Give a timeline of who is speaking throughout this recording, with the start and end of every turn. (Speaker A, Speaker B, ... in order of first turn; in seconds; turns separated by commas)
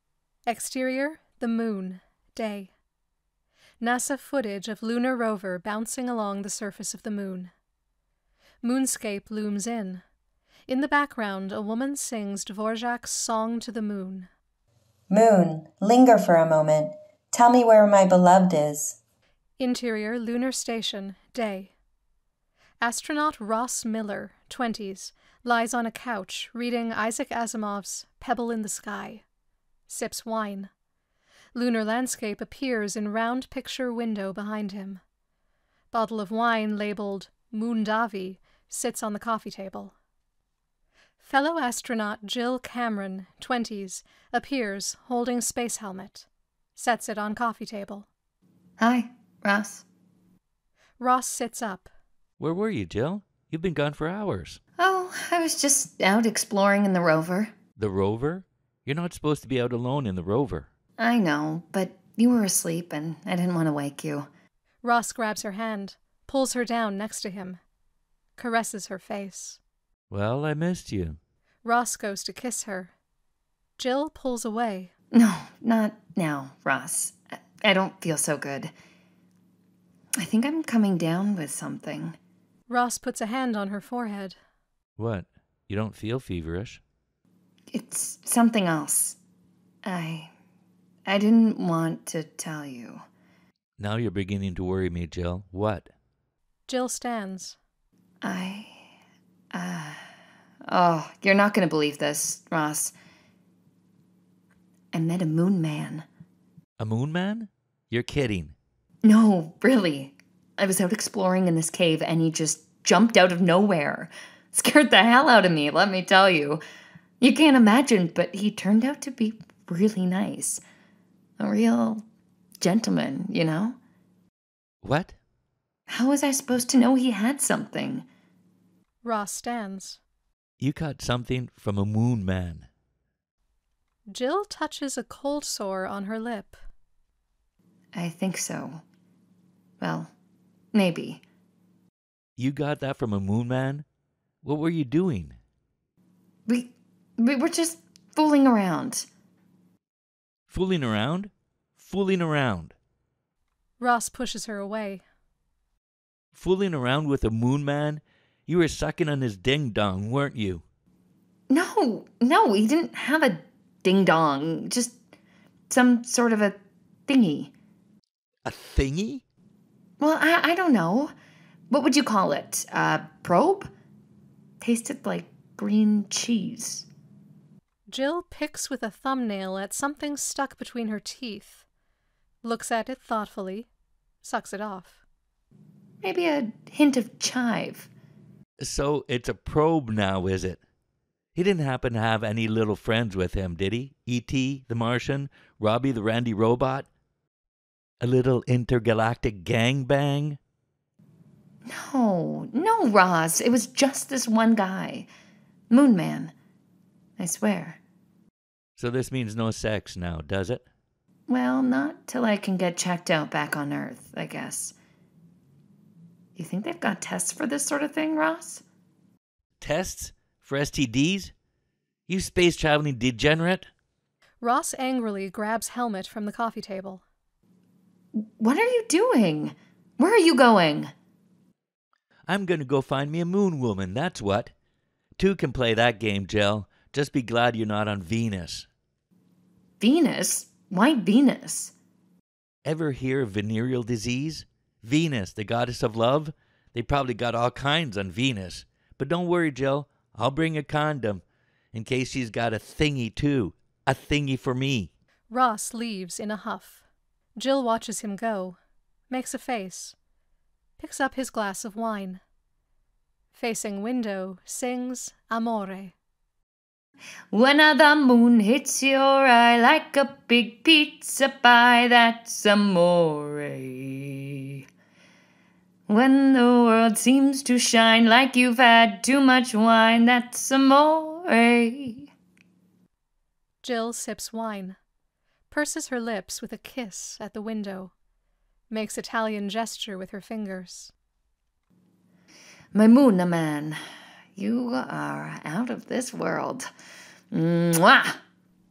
Speaker A: 0.5-2.7, Speaker A: 3.8-7.5, Speaker A: 8.6-10.0, Speaker A: 10.7-14.3, Speaker B: 15.1-19.0, Speaker A: 19.6-21.7, Speaker A: 22.8-29.2, Speaker A: 29.9-30.7, Speaker A: 31.5-35.0, Speaker A: 35.9-40.0, Speaker A: 41.2-48.1, Speaker C: 48.8-49.8, Speaker A: 51.0-51.9, Speaker D: 52.4-54.6, Speaker C: 54.8-57.5, Speaker D: 57.8-60.7, Speaker C: 61.0-64.3, Speaker A: 64.8-67.6, Speaker A: 68.4-69.6, Speaker D: 70.1-71.2, Speaker A: 71.6-72.9, Speaker A: 73.8-74.9, Speaker C: 75.1-78.7, Speaker C: 80.2-82.2, Speaker A: 82.7-84.4, Speaker D: 85.0-86.8, Speaker C: 87.7-89.2, Speaker C: 89.8-90.3, Speaker C: 91.1-93.0, Speaker D: 93.8-95.9, Speaker A: 96.7-97.6, Speaker C: 98.2-98.8, Speaker C: 99.5-100.0, Speaker C: 100.7-102.9, Speaker C: 104.9-106.1, Speaker D: 106.8-108.5, Speaker C: 109.0-116.6, Speaker C: 117.2-120.6, Speaker C: 121.4-122.0, Speaker C: 122.6-123.8, Speaker D: 124.8-125.2, Speaker C: 125.9-128.1, Speaker A: 129.0-130.0, Speaker D: 130.6-132.7, Speaker A: 134.1-136.6, Speaker C: 137.9-138.8, Speaker C: 139.8-140.1, Speaker C: 140.7-141.2, Speaker D: 142.4-143.8, Speaker D: 144.4-145.4, Speaker C: 146.5-149.1, Speaker D: 150.5-152.7, Speaker A: 153.8-155.0, Speaker D: 156.3-160.6, Speaker C: 161.5-165.0, Speaker C: 165.7-167.5, Speaker D: 168.4-169.2, Speaker C: 170.0-171.1, Speaker C: 171.7-173.7, Speaker C: 174.6-176.9, Speaker A: 177.9-181.7, Speaker A: 182.4-183.7, Speaker A: 184.2-185.0, Speaker C: 186.0-187.9, Speaker D: 188.6-190.6, Speaker D: 191.3-196.9, Speaker D: 198.0-200.4, Speaker C: 201.7-205.1, Speaker C: 205.7-206.3, Speaker C: 207.2-207.8, Speaker D: 208.8-210.7, Speaker C: 211.3-214.8, Speaker C: 216.4-218.6, Speaker D: 219.6-221.3, Speaker D: 222.1-223.7, Speaker A: 224.4-227.0, Speaker C: 228.2-230.9, Speaker D: 232.3-234.5, Speaker D: 235.2-238.7, Speaker C: 239.8-241.7, Speaker D: 242.7-254.9, Speaker A: 255.3-256.8, Speaker A: 257.4-258.6, Speaker A: 259.1-260.0, Speaker A: 260.8-262.2, Speaker A: 263.3-265.9, Speaker C: 267.3-274.6, Speaker C: 275.9-282.1, Speaker A: 283.6-284.8, Speaker A: 285.5-287.9, Speaker A: 288.7-290.9, Speaker C: 292.7-293.8, Speaker C: 294.4-296.7, Speaker C: 297.3-298.2